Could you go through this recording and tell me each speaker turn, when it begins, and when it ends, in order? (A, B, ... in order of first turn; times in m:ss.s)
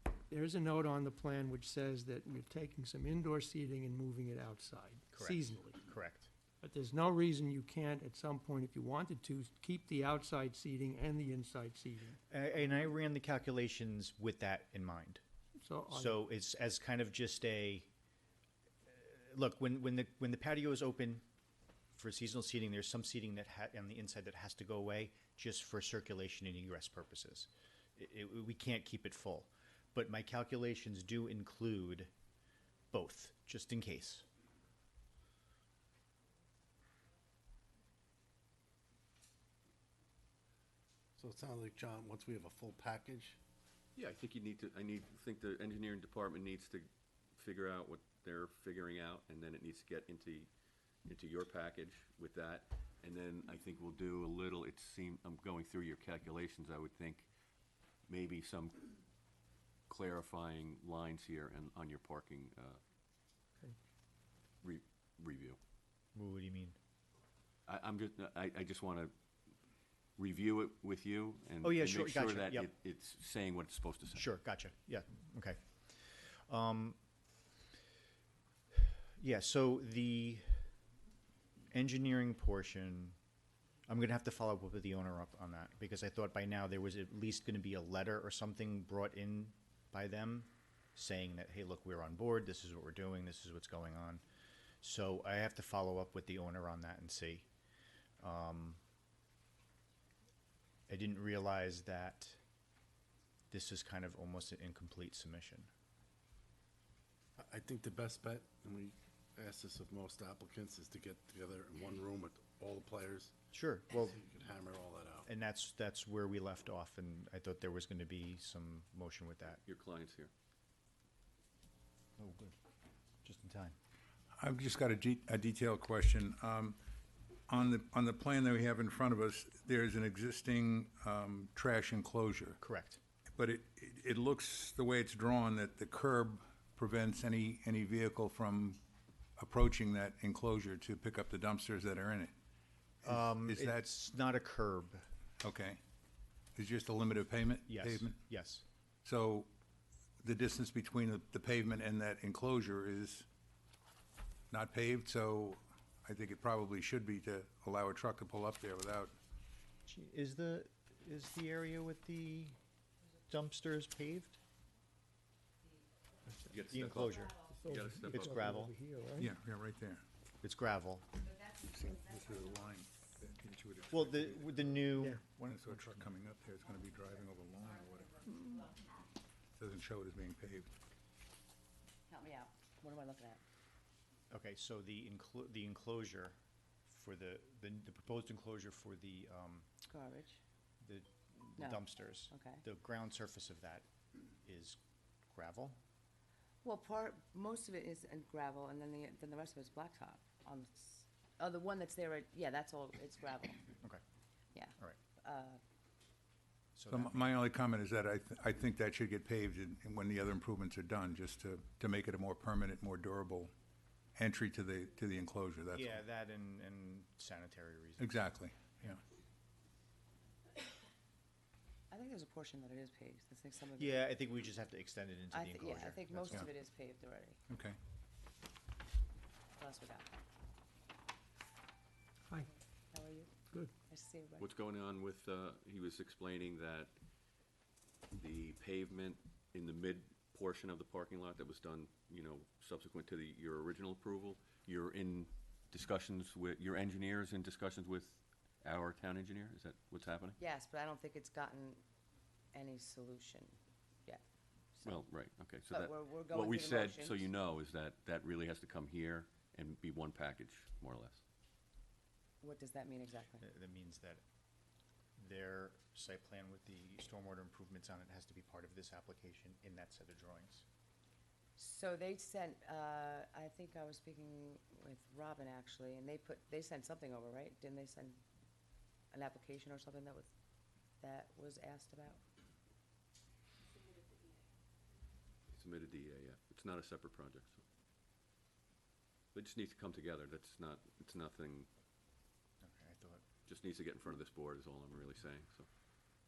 0:00.3-0:05.8 A
0:05.1-0:06.3 B
0:06.6-0:12.2 A
0:12.3-0:15.2 B
0:15.6-0:16.2 A
0:15.9-0:17.9 B
0:18.9-0:21.2 B
0:21.9-0:32.1 B
0:32.9-0:34.2 B
0:41.2-0:43.4 C
0:44.0-0:50.5 D
0:51.0-0:57.3 D
0:58.1-0:58.9 D
0:59.9-1:02.8 D
1:04.6-1:05.6 D
1:06.1-1:06.8 B
1:07.7-1:09.1 D
1:10.2-1:14.3 D
1:11.6-1:12.7 B
1:14.1-1:17.0 B
1:19.2-1:20.6 B
1:21.7-1:23.2 B
1:23.9-1:34.2 B
1:34.8-1:37.4 B
1:38.2-1:38.8 B
1:40.9-1:42.4 B
1:43.5-1:45.7 B
1:47.4-1:53.3 C
1:53.5-1:54.2 B
1:54.0-1:55.3 C
1:55.3-1:59.6 B
1:59.6-2:00.3 D
2:02.2-2:02.6 B
2:03.2-2:03.7 B
2:04.4-2:06.8 E
2:07.5-2:12.6 E
2:12.6-2:13.0 B
2:13.4-2:18.8 E
2:19.4-2:22.3 E
2:23.0-2:23.8 E
2:23.0-2:25.0 B
2:25.4-2:25.8 E
2:26.6-2:28.2 E
2:27.7-2:28.6 B
2:29.0-2:29.5 E
2:30.2-2:33.2 E
2:34.5-2:39.1 E
2:39.8-2:42.6 B
2:43.3-2:44.4 B
2:46.3-2:46.5 A
2:46.5-2:48.4 D
2:46.7-2:47.4 B
2:47.5-2:49.3 A
2:48.1-2:48.8 B
2:49.2-2:50.0 E
2:50.4-2:51.1 B
2:51.2-2:53.0 F
2:51.7-2:58.3 E
2:53.9-2:56.1 B
2:58.2-2:58.8 F
2:58.3-2:58.6 A
2:59.6-3:00.7 E
3:02.1-3:03.4 F
3:04.3-3:09.7 B
3:09.9-3:10.4 F
3:10.8-3:13.9 B
3:11.6-3:12.6 F
3:14.4-3:14.8 B
3:15.3-3:15.8 B
3:16.6-3:23.7 F
3:24.5-3:25.6 F
3:26.8-3:27.3 B
3:26.9-3:33.5 E
3:34.2-3:36.0 E
3:35.7-3:38.3 B
3:38.0-3:39.0 E
3:41.9-3:44.1 F
3:43.8-3:46.5 B
3:45.3-3:47.4 F
3:47.5-3:47.8 E
3:49.6-3:50.1 F
3:52.9-3:53.3 F
3:53.9-3:54.5 F
3:54.4-3:56.9 D
3:58.2-4:10.4 D
4:10.4-4:11.8 F
4:12.5-4:14.2 F
4:14.7-4:15.0 F
4:14.8-4:21.2 D
4:15.7-4:17.3 F
4:22.4-4:23.4 F
4:23.4-4:24.2 B
4:25.2-4:30.6 B
4:31.6-4:38.2 F
4:39.1-4:40.3 F
4:41.0-4:42.2 F
4:45.5-4:47.6 D
4:49.3-4:51.7 D
4:52.6-4:53.2 B
4:53.4-4:55.7 D